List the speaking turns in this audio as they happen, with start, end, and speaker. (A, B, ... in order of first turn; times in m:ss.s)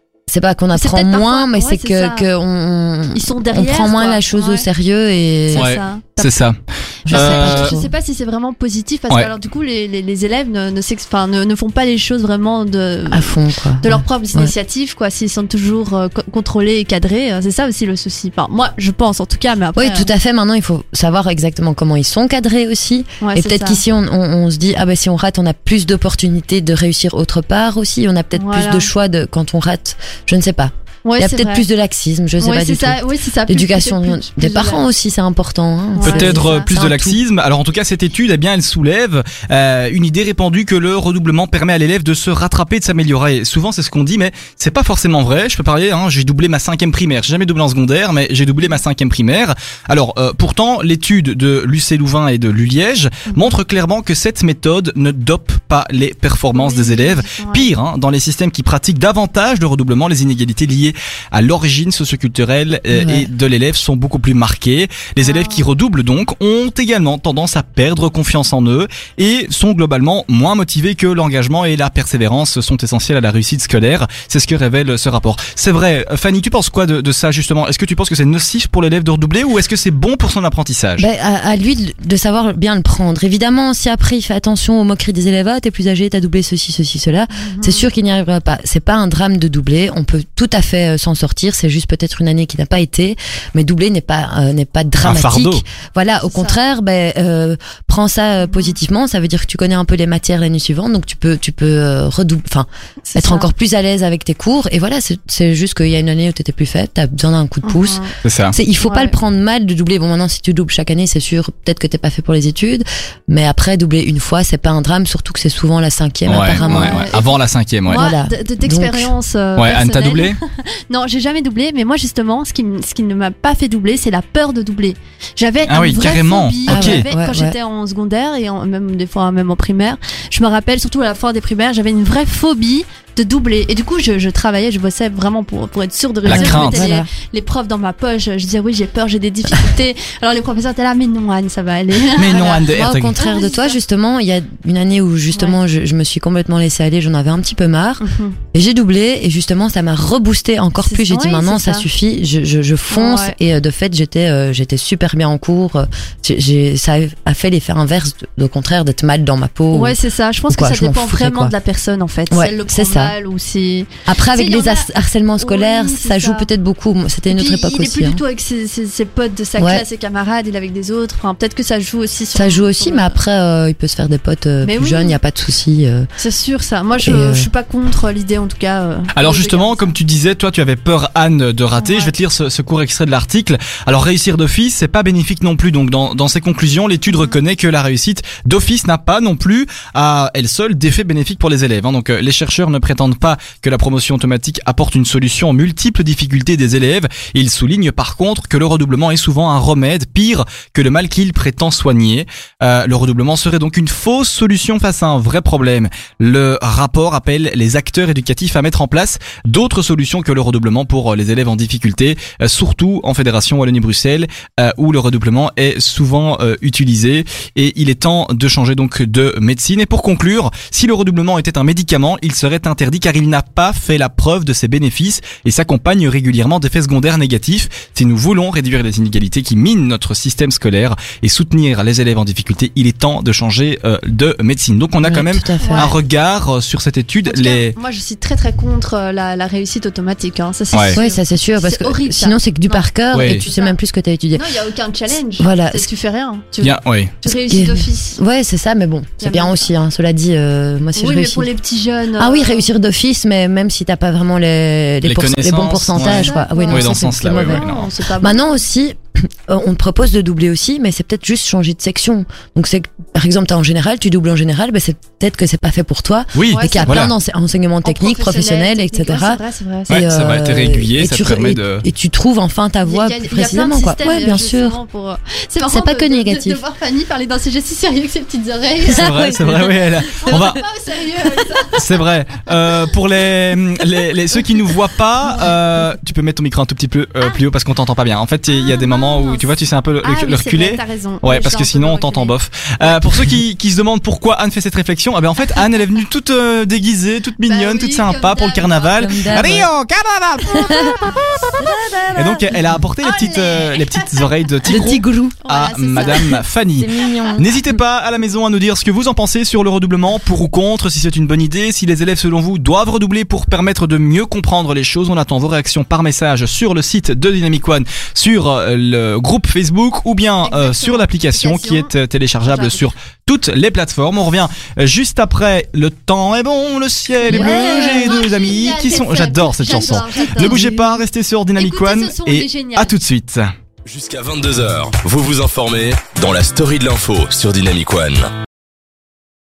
0:00.3-0:05.7 A
0:00.7-0:02.3 B
0:03.1-0:04.7 B
0:05.5-0:06.3 B
0:05.5-0:07.8 C
0:07.1-0:07.9 A
0:07.1-0:20.1 B
0:13.1-0:14.5 A
0:19.8-0:37.2 A
0:23.2-0:23.8 B
0:28.4-0:28.9 B
0:31.0-0:31.6 B
0:32.4-0:34.8 B
0:36.0-0:36.7 B
0:36.0-1:21.1 C
0:56.5-0:57.7 B
1:02.9-1:03.3 A
1:05.2-1:05.7 B
1:21.0-1:48.0 A
1:27.3-1:27.9 B
1:35.0-1:35.6 C
1:36.3-1:36.6 B
1:43.1-1:43.5 B
1:47.6-1:48.1 B
1:48.2-1:48.6 C
1:48.5-1:57.2 A
1:48.8-1:49.1 B
1:56.3-1:58.1 C
1:56.5-1:57.4 B
1:57.9-2:23.8 B
1:57.9-1:59.1 A
1:59.6-2:00.4 C
2:05.7-2:07.1 C
2:06.7-2:07.6 A
2:16.3-2:17.1 A
2:16.3-2:16.9 C
2:22.1-2:23.2 C
2:22.3-2:40.0 A
2:25.3-2:25.6 B
2:28.0-2:28.4 B
2:30.8-2:31.9 B
2:32.9-2:33.4 B
2:39.7-2:46.5 B
2:40.5-2:41.5 A
2:42.3-2:43.1 A
2:44.1-2:48.2 A
2:47.3-2:53.2 B
2:49.6-2:49.8 A
2:52.4-2:56.1 A
2:54.6-2:55.2 B
2:56.2-3:00.0 B
2:57.0-2:57.5 A
2:59.2-3:57.8 C
3:01.8-3:02.1 B
3:55.0-3:55.9 A
3:55.6-3:55.9 B
3:57.2-4:03.8 B
4:00.7-4:01.0 C
4:00.9-4:04.4 A
4:03.1-4:03.4 C
4:04.3-4:08.2 B
4:05.4-4:05.9 A
4:06.6-4:07.1 C
4:07.2-4:11.5 A
4:09.2-4:09.7 B
4:11.0-4:12.7 B
4:12.2-4:17.6 A
4:15.0-4:17.9 C
4:16.0-4:18.4 B
4:18.2-4:34.8 A
4:26.3-4:27.1 C
4:26.5-4:27.1 B
4:27.8-4:30.0 B
4:29.9-4:31.8 C
4:32.8-4:39.2 B
4:35.7-4:36.6 A
4:38.8-4:40.5 A
4:38.9-4:40.6 C
4:40.1-4:42.0 B
4:41.8-5:33.5 C
4:48.5-4:49.4 B
4:50.0-4:53.0 B
4:57.5-4:59.4 B
4:59.0-4:59.7 A
5:00.5-5:00.9 B
5:00.6-5:01.0 A
5:01.6-5:02.6 A
5:03.0-5:04.9 B
5:04.7-5:05.4 A
5:05.4-5:06.3 B
5:05.9-5:07.5 A
5:20.4-5:21.9 B
5:22.4-5:22.9 B
5:27.2-5:28.2 A
5:27.2-5:30.6 B
5:29.6-5:31.0 A
5:31.6-5:33.0 B
5:33.8-5:38.3 D